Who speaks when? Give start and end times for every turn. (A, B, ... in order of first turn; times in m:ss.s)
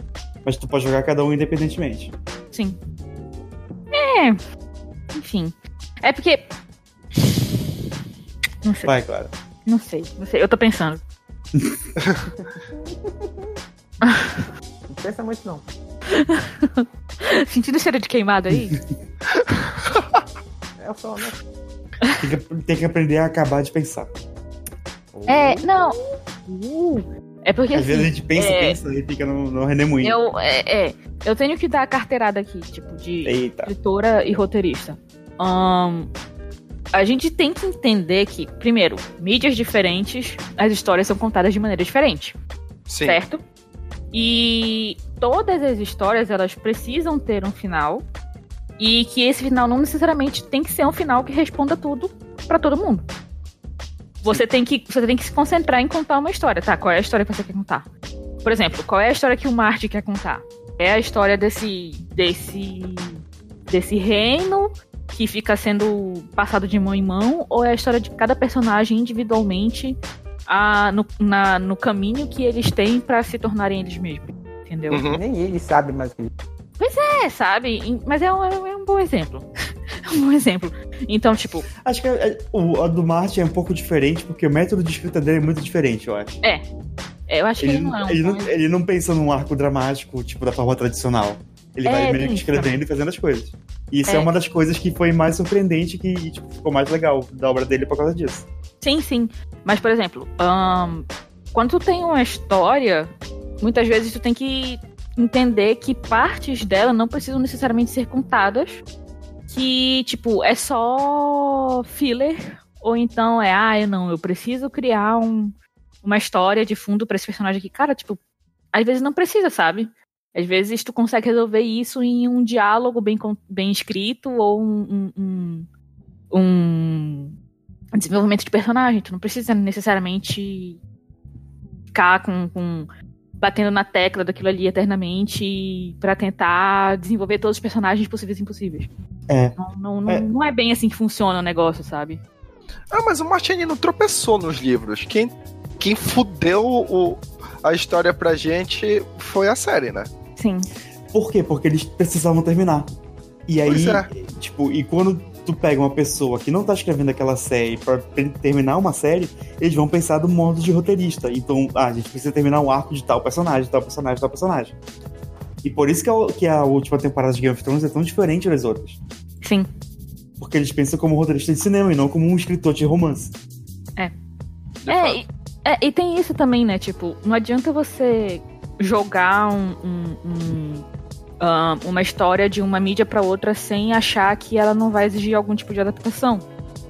0:00.4-0:02.1 A
0:02.5-0:02.8 B
0:03.9-0:04.4 B
0:05.2-0:06.5 B
0:07.2-0:07.4 B
0:08.6-0:08.9 B
0:08.9-0:09.3 A
0:09.7-0:11.0 B
0:12.3-0:13.6 C
0:14.0-0:14.5 B
0:14.9-0:15.6 C
0:16.1-0:18.8 B
0:18.5-0:18.8 A
0:19.4-0:20.2 D
0:20.8-0:21.4 C
0:22.2-0:24.1 A
0:25.1-0:25.9 C
0:25.3-0:28.8 B
0:27.7-0:30.2 A
0:30.0-0:36.1 B
0:33.2-0:33.7 A
0:36.9-0:42.4 B
0:42.9-0:43.2 D
0:43.0-0:43.4 B
0:44.1-0:48.1 B
0:48.8-0:53.1 B
0:54.2-0:57.9 B
0:58.4-1:15.0 B
1:14.9-1:15.2 D
1:15.0-1:16.3 C
1:16.8-1:19.5 B
1:20.0-1:21.7 B
1:21.7-1:26.4 A
1:27.3-1:28.5 B
1:27.6-1:38.5 A
1:31.9-1:32.8 B
1:38.8-1:48.8 B
1:49.5-1:58.2 B
1:58.7-2:05.7 B
2:06.3-2:07.3 B
2:07.9-2:10.8 B
2:11.9-2:12.9 B
2:13.4-2:18.9 B
2:19.3-2:20.3 A
2:19.6-2:22.2 B
2:22.9-2:30.1 D
2:30.4-2:30.7 B
2:31.1-2:32.9 A
2:33.5-2:44.7 A
2:33.6-2:34.1 D
2:45.6-2:49.0 A
2:49.4-2:49.7 B
2:50.4-2:53.3 A
2:54.8-2:55.2 D
2:54.9-3:00.9 B
3:01.4-3:06.5 B